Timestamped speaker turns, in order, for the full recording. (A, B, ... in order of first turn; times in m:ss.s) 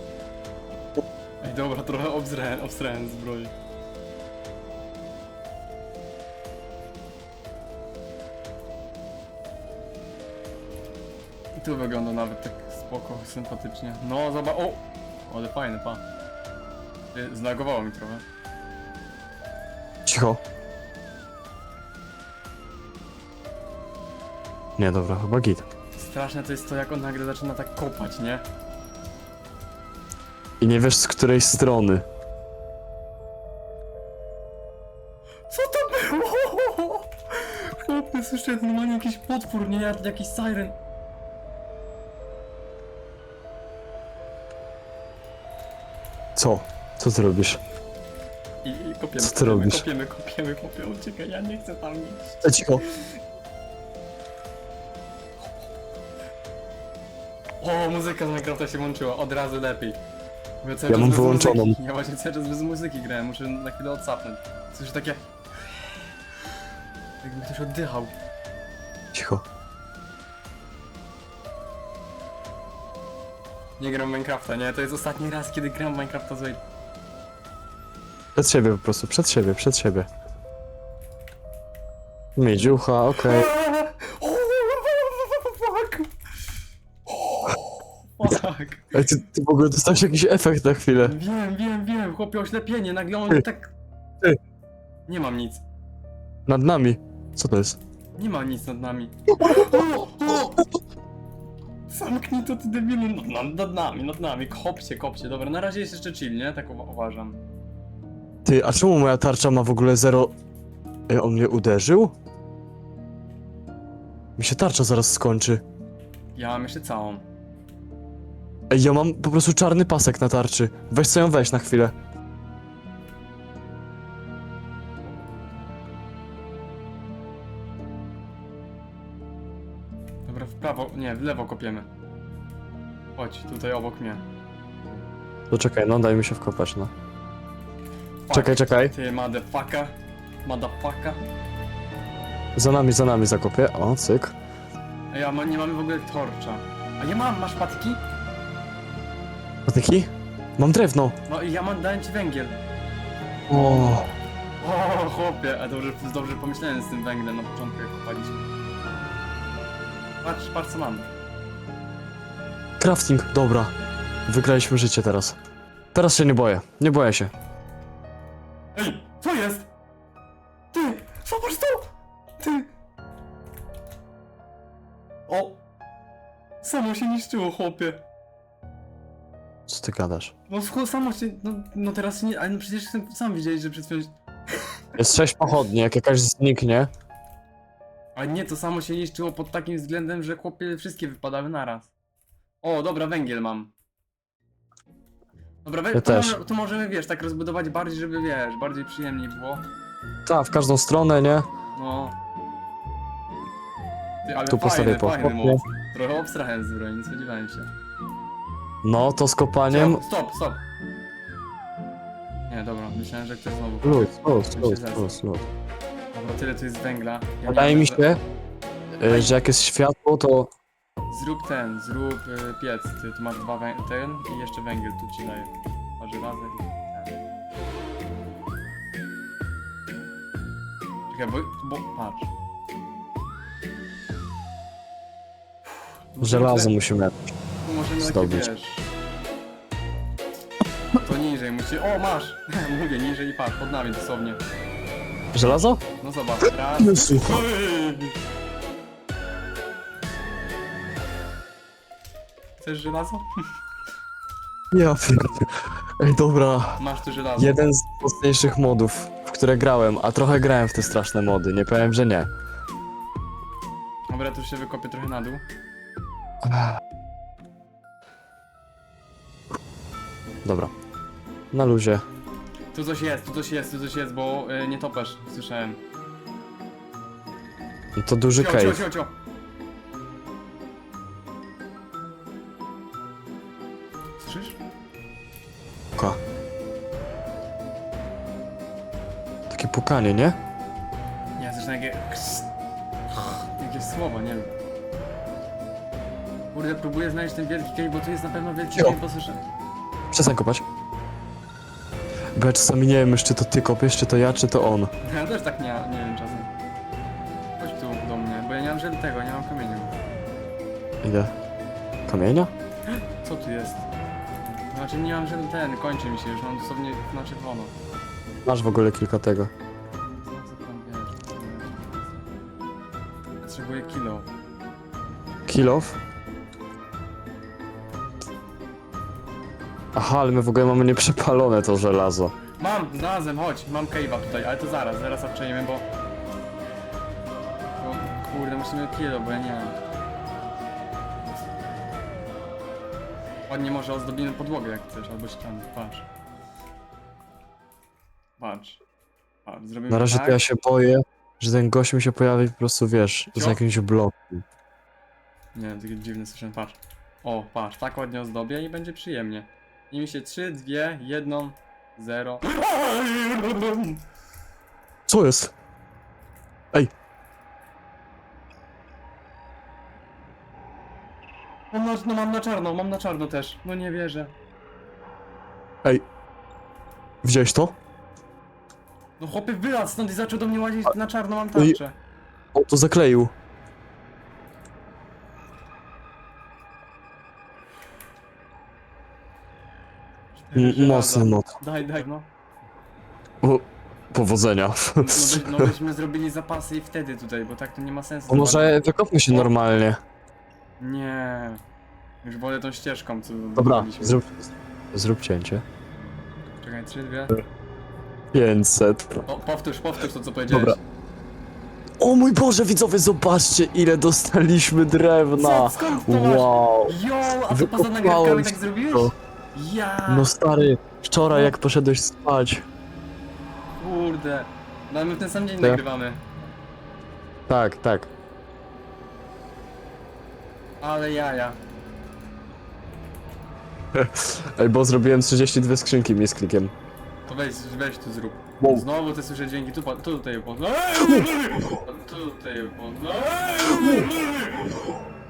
0:01.4-0:03.5 A
0:11.6-0:16.0 A
0:17.1-0:18.2 A
0:20.0-0:20.4 B
0:24.8-0:25.6 B
0:26.0-0:28.4 A
0:30.6-0:32.0 B
0:35.5-0:40.8 A
0:46.4-0:47.6 B
0:48.6-0:53.2 A
0:49.2-0:49.8 B
0:52.4-0:52.8 B
0:57.6-1:00.0 A
1:00.6-1:06.5 A
1:00.9-1:01.8 B
1:07.2-1:08.1 A
1:09.1-1:09.4 B
1:13.8-1:16.6 A
1:18.4-1:20.1 B
1:22.4-1:23.5 B
1:23.2-1:26.1 A
1:27.1-1:29.0 A
1:28.9-1:31.2 B
1:31.0-1:33.7 A
1:35.1-1:35.6 A
1:36.5-1:37.8 B
1:38.2-1:40.6 A
1:41.9-1:47.4 A
1:48.4-1:50.3 B
1:51.1-1:52.1 B
1:54.4-1:55.6 B
1:56.3-1:57.3 A
1:58.7-2:01.9 B
2:10.2-2:11.9 A
2:13.2-2:14.2 A
2:15.5-2:16.9 B
2:18.2-2:21.2 A
2:18.3-2:18.9 B
2:22.6-2:24.3 B
2:25.1-2:28.0 A
2:29.6-2:31.2 B
2:31.3-2:32.6 A
2:33.5-2:34.1 B
2:33.5-2:34.0 A
2:34.6-2:38.5 A
2:40.2-2:41.1 A
2:42.8-2:43.7 B
2:44.3-2:45.4 B
2:45.9-2:47.3 B
2:48.7-2:49.7 A
2:50.7-2:51.9 A
2:52.4-2:52.7 A
2:55.3-2:55.6 A
2:56.6-2:58.0 A
2:59.7-3:00.3 B
3:00.5-3:04.8 A
3:05.0-3:06.9 B
3:08.2-3:11.9 A
3:12.6-3:13.7 A
3:15.6-3:19.6 A
3:15.9-3:16.4 B
3:20.2-3:21.5 B
3:21.7-3:22.1 A
3:24.2-3:27.7 A
3:24.5-3:25.6 B
3:28.8-3:30.0 B
3:29.7-3:30.6 A
3:32.5-3:35.1 A
3:33.8-3:35.5 B
3:36.1-3:38.0 A
3:37.4-3:38.2 B
3:39.0-3:40.5 B
3:39.0-3:39.4 A
3:41.1-3:47.1 A
3:51.1-3:52.3 A
3:56.1-3:56.7 A
3:56.2-3:57.1 B
3:57.6-3:58.9 A
3:58.0-3:58.5 B
4:00.9-4:04.4 A
4:05.3-4:05.8 B
4:05.4-4:08.1 A
4:06.8-4:07.4 B
4:12.6-4:13.5 A
4:14.7-4:16.8 B
4:16.8-4:17.6 A
4:17.4-4:22.3 B
4:24.1-4:25.4 A
4:26.4-4:26.8 B
4:30.4-4:30.7 B
4:31.5-4:32.0 B
4:32.7-4:35.8 A
4:38.0-4:38.8 B
4:38.3-4:39.1 A
4:44.2-4:44.6 A
4:49.5-4:50.4 B
4:51.4-4:52.5 A
4:53.1-4:54.5 A
4:56.5-4:59.4 A
5:00.1-5:00.6 B
5:02.3-5:04.9 B
5:05.0-5:06.5 A
5:07.6-5:09.9 A
5:11.0-5:11.3 B
5:12.1-5:12.5 B
5:13.2-5:13.8 A
5:14.4-5:17.7 A
5:18.4-5:19.5 B
5:20.2-5:22.3 A
5:23.4-5:24.3 A
5:25.5-5:26.0 B
5:29.9-5:32.3 B
5:32.6-5:35.8 A
5:37.8-5:39.8 A
5:43.5-5:46.1 A
5:48.4-5:48.8 A
5:49.4-5:50.4 A
5:49.9-5:54.4 B
5:53.3-5:53.6 A
5:55.5-6:04.0 A
6:05.1-6:05.5 B
6:11.7-6:14.3 A
6:17.2-6:17.8 B
6:19.2-6:21.9 A
6:22.5-6:23.3 B
6:30.3-6:32.3 A
6:30.5-6:31.5 B
6:33.4-6:35.7 B
6:35.0-6:38.8 A
6:38.3-6:40.0 B
6:40.8-6:41.6 A
6:42.2-6:44.2 A
6:43.6-6:45.6 B
6:46.6-6:47.4 A
6:48.3-6:49.2 B
6:49.2-6:50.8 A
6:50.5-6:50.8 B
6:52.0-6:57.0 B
6:55.4-7:00.4 A
6:57.5-6:59.1 B
7:00.1-7:02.6 B
7:01.3-7:01.5 A
7:03.8-7:06.2 A
7:07.5-7:08.1 B
7:10.8-7:11.6 A
7:13.9-7:16.7 B
7:17.2-7:24.9 A
7:18.6-7:18.8 B
7:23.8-7:24.1 B